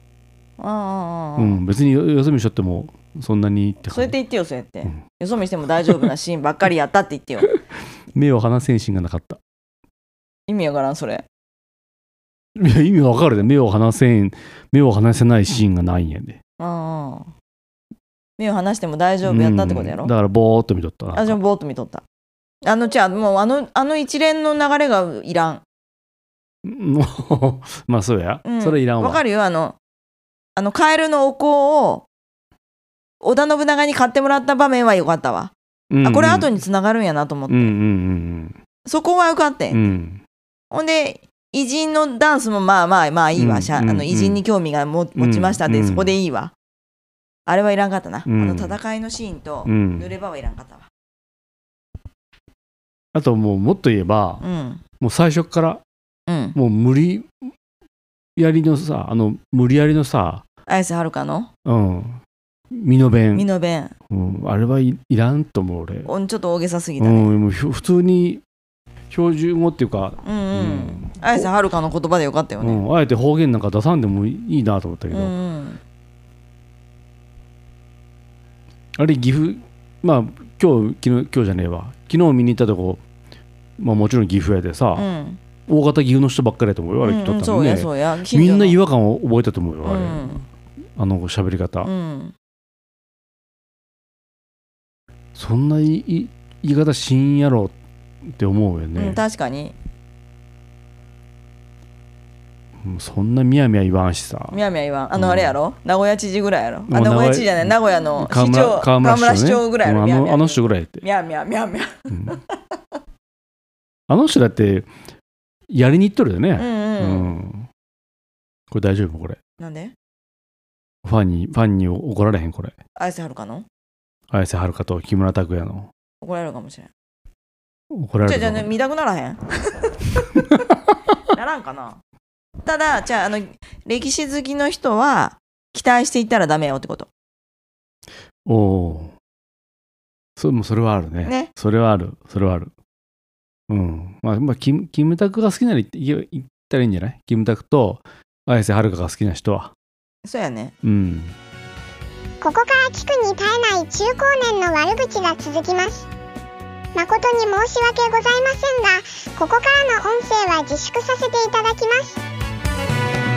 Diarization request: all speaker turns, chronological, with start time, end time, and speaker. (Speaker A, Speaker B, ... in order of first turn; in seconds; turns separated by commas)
Speaker A: 0.6-1.6, Speaker B: 1.4-4.1, Speaker A: 3.8-7.5, Speaker B: 8.1-9.4, Speaker A: 10.5-11.2, Speaker B: 12.6-16.4, Speaker A: 16.6-17.3, Speaker A: 18.4-20.1, Speaker B: 19.2-21.4, Speaker A: 21.1-22.0, Speaker A: 22.6-25.6, Speaker B: 26.6-29.2, Speaker A: 28.4-29.8, Speaker A: 30.6-32.1, Speaker A: 33.2-37.7, Speaker B: 35.9-36.5, Speaker B: 37.5-38.6, Speaker A: 38.8-39.9, Speaker B: 39.7-40.2, Speaker A: 40.7-46.5, Speaker B: 43.4-44.4, Speaker B: 45.1-46.1, Speaker A: 47.5-50.9, Speaker B: 48.3-48.8, Speaker B: 49.6-50.1, Speaker B: 53.1-54.4, Speaker A: 54.4-54.8, Speaker B: 55.0-55.8, Speaker A: 56.3-56.6, Speaker B: 56.5-57.5, Speaker B: 58.4-60.4, Speaker A: 60.7-61.5, Speaker B: 61.6-62.2, Speaker B: 62.7-63.5, Speaker A: 63.3-63.9, Speaker B: 64.1-66.1, Speaker A: 66.0-67.3, Speaker B: 67.0-68.4, Speaker B: 69.1-71.5, Speaker A: 70.2-72.8, Speaker B: 72.6-75.3, Speaker A: 75.1-75.8, Speaker B: 79.0-83.0, Speaker B: 83.8-85.1, Speaker A: 85.0-85.4, Speaker B: 85.7-90.3, Speaker A: 87.0-88.8, Speaker A: 89.8-90.4, Speaker B: 91.0-91.9, Speaker A: 91.8-92.3, Speaker B: 95.3-97.7, Speaker B: 98.3-99.2, Speaker A: 99.0-99.7, Speaker B: 102.8-104.6, Speaker A: 104.5-112.6, Speaker B: 105.1-105.6, Speaker B: 106.9-111.0, Speaker B: 114.1-114.9, Speaker B: 115.7-117.7, Speaker A: 116.6-117.3, Speaker B: 118.7-119.4, Speaker A: 119.6-119.9, Speaker B: 121.0-122.7, Speaker A: 123.0-123.7, Speaker B: 124.3-125.9, Speaker A: 126.2-126.9, Speaker B: 127.9-128.7, Speaker A: 128.2-130.5, Speaker A: 131.3-132.0, Speaker A: 132.6-137.1, Speaker B: 138.4-139.1, Speaker B: 140.4-142.7, Speaker A: 141.2-141.5, Speaker B: 143.7-149.7, Speaker A: 150.2-150.7, Speaker B: 150.8-151.3, Speaker C: 152.4-156.1, Speaker C: 156.9-162.2